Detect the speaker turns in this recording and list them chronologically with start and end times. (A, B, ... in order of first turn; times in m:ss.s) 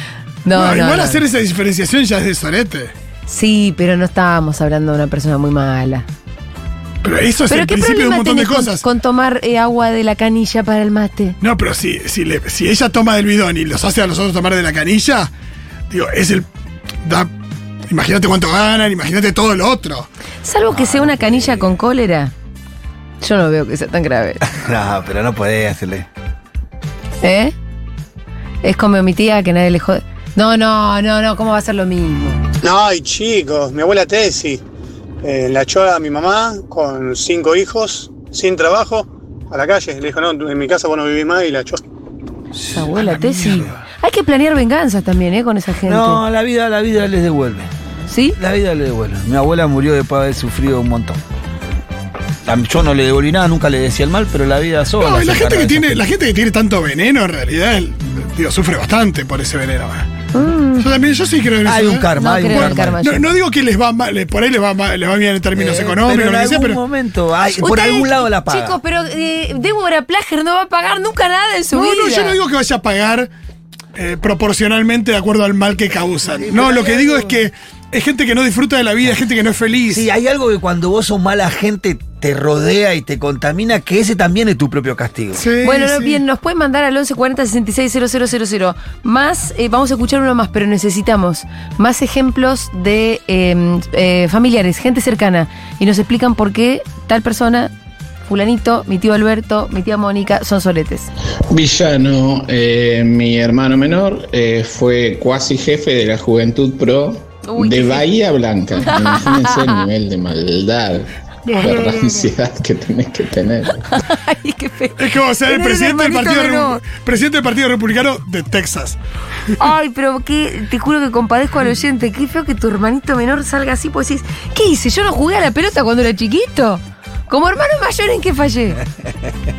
0:00.4-0:01.2 A
0:00.5-0:02.9 B
0:03.3-0:06.0 A
0:07.0-0:08.8 B
0:07.5-0:11.4 A
0:11.4-0:15.3 B
0:15.9-0:16.5 B
0:17.0-0:17.3 B
0:17.9-0:20.1 B
0:20.4-0:22.3 A
0:20.7-0:21.8 C
0:23.2-0:24.4 A
0:24.4-0:26.1 C
0:27.2-0:27.5 A
0:28.6-0:32.4 A
0:32.6-0:34.6 D
0:35.2-0:41.8 D
0:42.6-0:42.8 C
0:42.7-0:46.2 A
0:42.9-0:43.8 B
0:45.9-0:47.7 C
0:48.1-0:48.4 A
0:48.4-0:51.2 C
0:52.4-0:56.0 C
0:55.0-1:00.1 B
1:00.3-1:00.9 A
1:00.8-1:06.8 B
1:01.6-1:03.0 C
1:02.2-1:03.3 A
1:05.5-1:08.8 C
1:07.6-1:12.4 A
1:11.7-1:13.3 B
1:14.0-1:20.1 B
1:16.4-1:17.2 C
1:19.9-1:25.5 C
1:25.3-1:26.2 B
1:25.6-1:37.7 A
1:38.3-1:41.1 A
1:41.5-1:53.8 E
1:47.5-1:48.0 A
1:48.8-1:49.8 A
1:51.4-1:52.3 B
1:53.9-1:56.8 A
1:55.0-1:59.0 B
1:59.6-2:08.8 A